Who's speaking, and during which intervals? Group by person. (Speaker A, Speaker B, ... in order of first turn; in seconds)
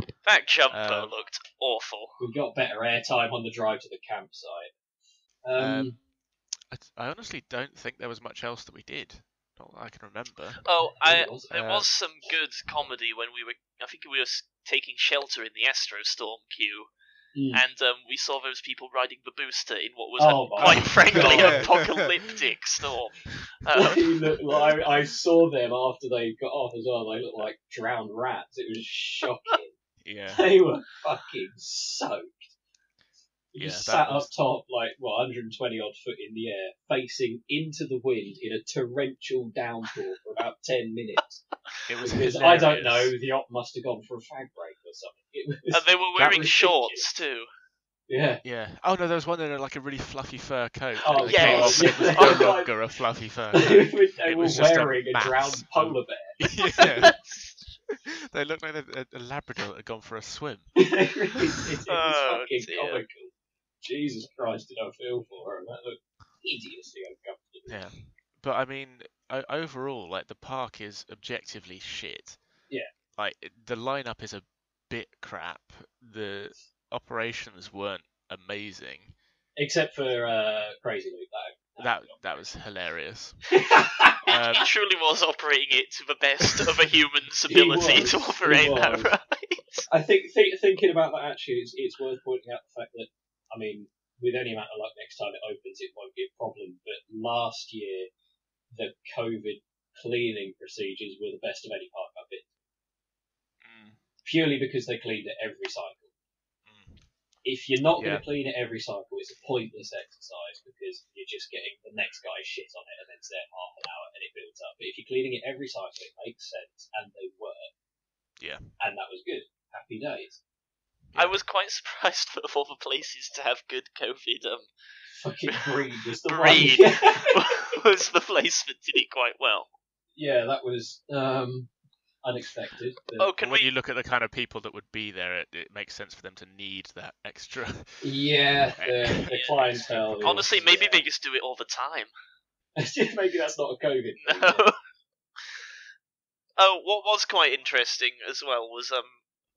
Speaker A: 0.2-2.1, 10.6-16.9, 17.5-24.1, 45.7-47.5, 51.2-52.5, 57.0-57.6, 61.9-63.0, 84.3-89.9, 121.2-124.7, 125.5-129.7, 133.2-133.7, 139.3-142.1, 144.2-144.7, 146.6-149.2
Speaker B: 0.7-1.1, 5.5-6.0, 6.7-10.6, 11.5-11.9, 20.6-22.4, 30.0-30.5, 33.6-34.3, 41.9-43.1, 48.4-57.2, 57.9-60.9, 67.7-72.4, 73.2-79.1, 81.8-83.4, 84.2-84.7, 103.6-104.0, 106.7-107.0, 108.0-108.2, 118.4-118.7, 121.1-121.4, 133.4-138.2, 138.8-140.7
Speaker C: 2.2-4.7, 5.4-6.0, 11.0-11.5, 17.3-17.6, 20.2-21.8, 23.7-29.8, 30.3-32.5, 33.5-41.4, 42.0-47.1, 48.1-48.4, 51.0-52.8, 53.5-57.1, 60.8-63.3, 63.8-67.9, 79.6-82.4, 83.5-84.2, 87.5-89.1, 89.9-98.1, 98.7-102.5, 104.2-106.1, 107.4-117.7, 118.8-120.4, 125.1-127.6, 130.1-131.7, 132.2-133.3, 138.0-141.0, 142.8-144.7